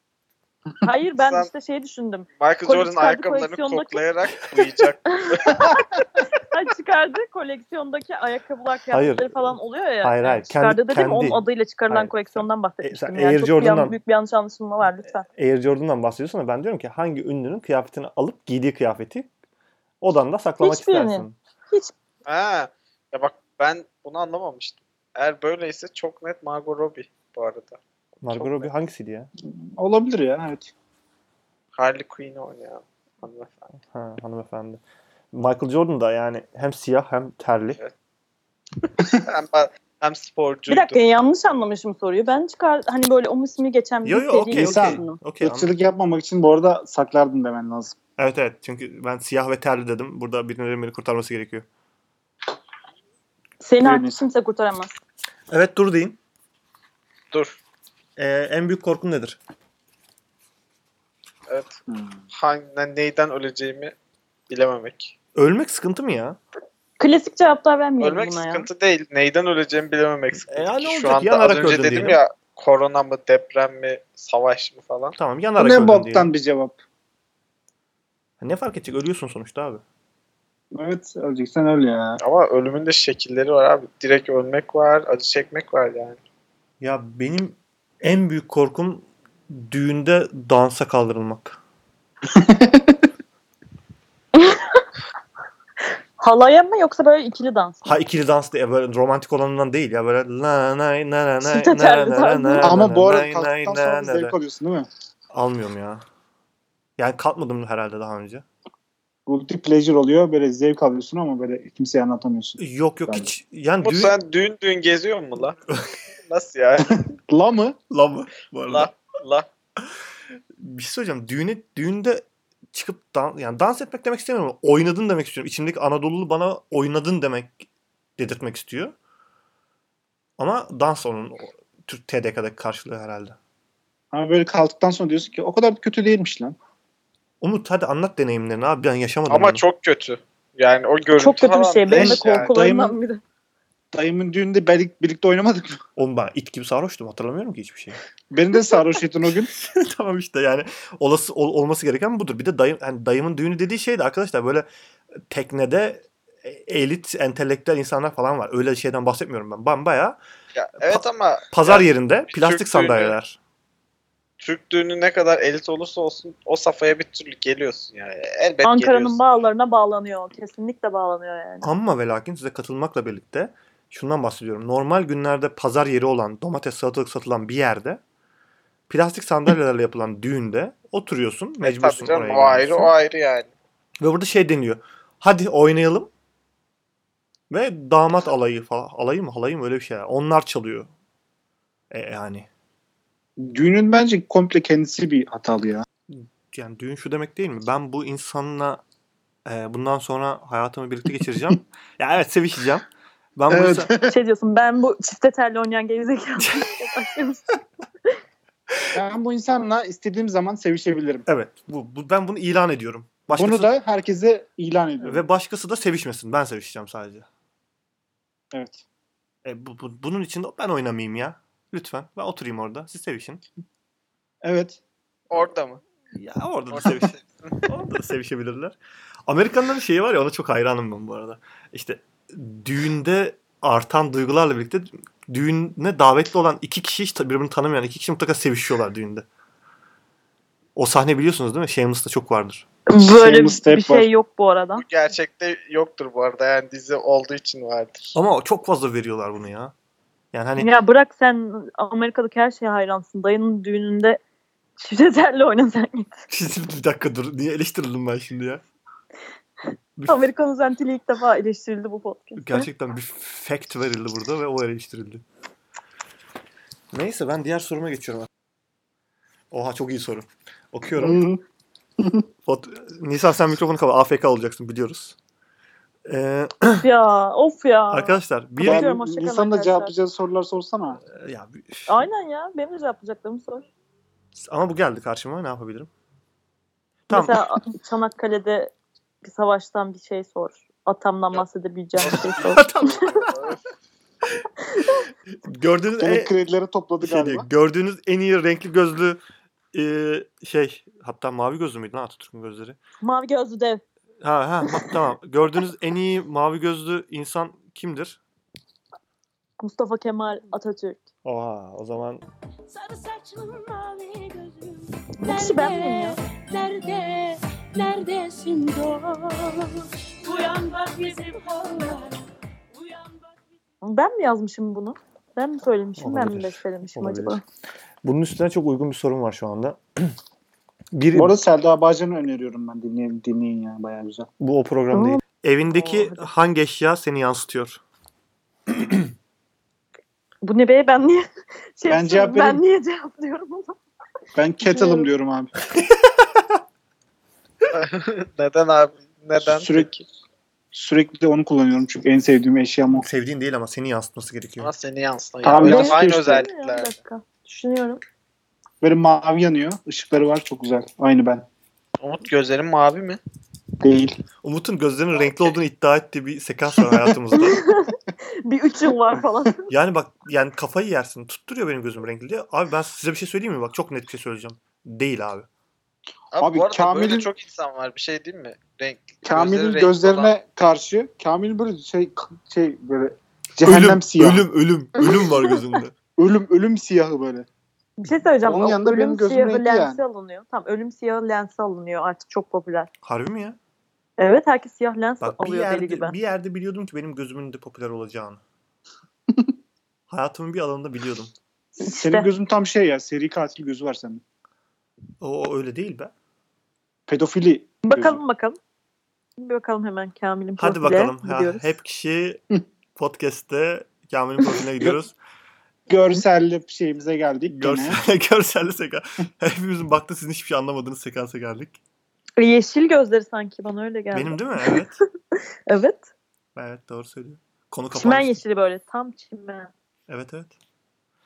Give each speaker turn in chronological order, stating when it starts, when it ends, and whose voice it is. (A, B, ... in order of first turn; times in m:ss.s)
0:00.8-0:04.0 A
0:01.2-0:01.5 B
0:02.4-0:05.7 B
0:05.1-0:15.2 A
0:08.9-0:14.0 C
0:15.2-0:19.3 C
0:20.0-0:21.4 C
0:20.6-0:21.9 A
0:22.2-0:27.8 B
0:28.2-0:29.3 C
0:28.3-0:28.7 B
0:29.4-0:30.7 D
0:31.8-0:33.7 B
0:33.9-0:34.8 C
0:35.3-0:37.8 C
0:39.1-0:41.0 B
0:40.7-0:45.2 A
0:44.0-0:45.7 C
0:44.5-0:48.0 D
0:48.2-0:51.6 C
0:53.6-0:55.0 A
0:53.8-0:54.2 D
0:55.5-0:56.2 C
0:57.3-0:57.6 B
0:58.2-0:59.4 C
1:01.5-1:01.8 B
1:01.9-1:02.2 D
1:02.3-1:03.9 B
1:04.5-1:05.1 B
1:05.3-1:06.4 C
1:07.0-1:08.7 A
1:08.0-1:15.2 B
1:10.5-1:12.2 C
1:15.2-1:16.3 C
1:15.6-1:16.8 D
1:18.4-1:19.8 C
1:20.7-1:22.2 D
1:22.2-1:26.2 B
1:26.8-1:31.6 C
1:32.3-1:33.0 D
1:34.4-1:34.8 A
1:36.2-1:37.9 A
1:37.8-1:44.3 C
1:41.4-1:42.8 A
1:42.6-1:44.9 D
1:45.3-1:46.0 C
1:47.0-1:48.4 C
1:49.2-1:53.3 D
1:52.6-1:54.1 C
1:53.8-1:55.6 B
1:56.3-1:57.0 B
1:57.3-1:57.8 D
1:57.9-1:58.9 C
1:58.7-1:59.5 B
2:00.6-2:07.6 C
2:08.2-2:08.9 C
2:10.4-2:13.4 C
2:14.1-2:16.6 D
2:17.4-2:19.6 C
2:19.3-2:22.5 B
2:21.1-2:23.2 A
2:21.9-2:23.0 D
2:23.9-2:25.8 D
2:26.0-2:28.0 C
2:28.3-2:29.5 D
2:29.5-2:34.7 C
2:35.3-2:40.2 C
2:40.5-2:43.1 B
2:40.8-2:43.4 C
2:44.4-2:49.2 B
2:48.6-2:51.7 A
2:51.6-2:58.0 C
2:58.9-3:02.9 C
3:01.6-3:03.5 B
3:04.0-3:06.1 C
3:07.5-3:10.9 C
3:11.9-3:12.5 C
3:13.4-3:15.8 D
3:16.1-3:18.8 C
3:19.4-3:23.9 C
3:23.5-3:24.2 D
3:24.0-3:27.4 A
3:28.9-3:31.2 D
3:31.2-3:33.7 C
3:33.3-3:35.2 D
3:35.0-3:37.3 C
3:38.5-3:38.8 D
3:39.4-3:43.4 C
3:44.4-3:44.8 D
3:45.3-3:45.8 B
3:46.1-3:59.2 C
3:46.7-3:47.6 B
4:00.8-4:02.6 C
4:02.9-4:04.8 A
4:03.0-4:04.1 D
4:04.8-4:08.1 B
4:08.1-4:09.7 C
4:10.3-4:10.7 C
4:10.6-4:14.2 A
4:14.8-4:16.2 A
4:16.3-4:18.6 C
4:20.1-4:22.7 A
4:22.4-4:25.2 C
4:26.9-4:28.3 C
4:29.5-4:31.2 C
4:30.9-4:31.4 D
4:32.0-4:32.2 D
4:32.4-4:35.2 C
4:36.0-4:36.9 C
4:36.8-4:39.9 A
4:37.9-4:38.9 C
4:38.6-4:41.0 D
4:41.1-4:42.0 C
4:41.9-4:43.6 A
4:44.4-4:45.9 C
4:47.1-4:47.5 C
4:47.1-4:52.9 A
4:52.0-4:53.6 B
4:52.0-4:53.3 C
4:54.8-4:56.3 C
4:56.0-4:57.5 D
4:57.0-4:59.2 C
4:59.7-5:02.8 C
5:03.0-5:03.8 A
5:04.2-5:08.2 C
5:09.6-5:11.0 A
5:11.2-5:12.2 C
5:12.7-5:22.2 E
5:15.2-5:16.2 A
5:22.7-5:23.3 E
5:23.8-5:27.4 A
5:26.0-5:27.4 C
5:28.0-5:30.2 C
5:30.9-5:31.3 C
5:31.1-5:34.3 D
5:34.4-5:37.8 C
5:34.9-5:35.2 A
5:35.7-5:36.3 A
5:38.7-5:39.0 C
5:40.4-5:41.2 A
5:41.8-5:43.8 A
5:41.9-5:42.6 D
5:44.3-5:45.5 D
5:44.6-5:45.1 A
5:47.7-5:50.0 B
5:49.4-5:49.9 D
5:50.7-5:53.0 D
5:52.9-5:54.7 C
5:54.6-5:56.9 B
5:55.4-5:56.5 D
5:55.6-5:58.0 A
5:58.8-6:01.4 D
6:02.0-6:03.2 B
6:03.8-6:04.2 D
6:04.4-6:07.7 C
6:05.2-6:05.5 B
6:07.3-6:09.7 A
6:09.7-6:15.5 C
6:16.3-6:20.3 B
6:16.4-6:17.3 D
6:19.2-6:24.5 D
6:23.6-6:25.9 C
6:26.2-6:27.5 D
6:28.0-6:32.9 A
6:28.4-6:30.0 D
6:33.0-6:33.6 C
6:34.2-6:36.1 A
6:35.2-6:38.4 C
6:40.1-6:41.3 C
6:41.7-6:44.2 D
6:41.8-6:42.3 A
6:45.2-6:46.1 C
6:47.1-6:48.2 D
6:47.8-6:48.6 A
6:49.4-6:51.7 A
6:50.6-6:52.4 C
6:53.0-6:55.1 C
6:55.9-6:58.0 D
6:57.5-7:01.8 C
7:02.4-7:04.8 A
7:04.1-7:05.0 C
7:05.7-7:06.1 A
7:06.6-7:08.4 C
7:07.9-7:09.7 A
7:10.1-7:10.5 C